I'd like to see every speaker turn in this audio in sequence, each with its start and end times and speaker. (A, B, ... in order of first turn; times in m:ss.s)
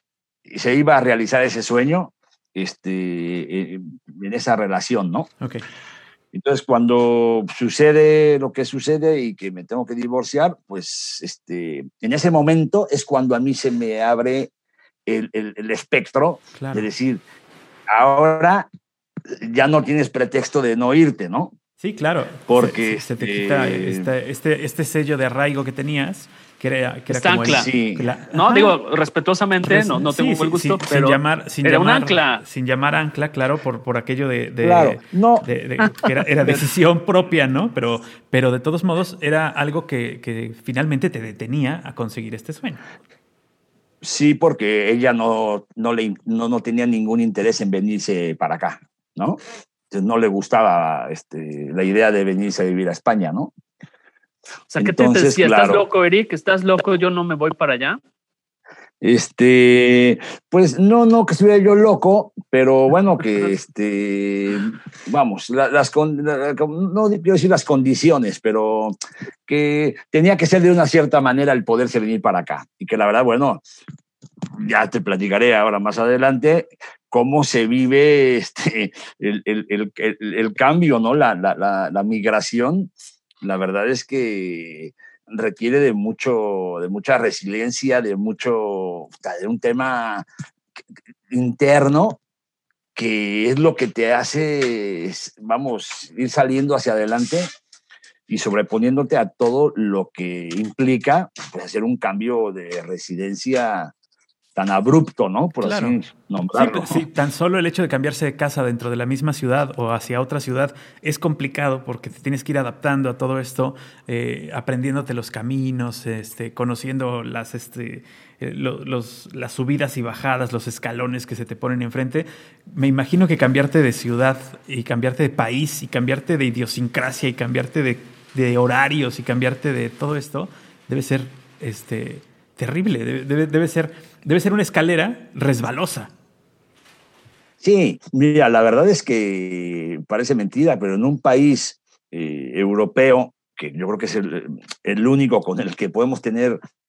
0:00.5-0:05.3 A
0:06.3-0:14.5 A
0:15.1-0:17.2 A
0:16.6-0:16.9 B
0:17.9-0:18.7 A
0:19.3-0:21.5 A
0:21.8-0:28.8 B
0:22.5-0:24.1 A
0:27.1-0:27.7 C
0:27.5-0:28.2 A
0:28.3-0:32.4 C
0:29.6-0:42.8 B
0:34.6-0:35.5 A
0:44.0-0:49.4 A
0:49.9-0:53.5 A
0:54.7-0:58.0 C
0:54.8-0:55.8 A
0:59.0-1:09.0 A
1:09.5-1:13.6 A
1:14.6-1:22.9 A
1:23.4-1:30.3 A
1:30.8-1:32.2 A
1:33.0-1:37.5 A
1:38.3-1:43.9 A
1:44.6-1:47.0 A
1:45.6-1:46.0 B
1:46.5-2:16.1 B
2:17.6-2:26.6 A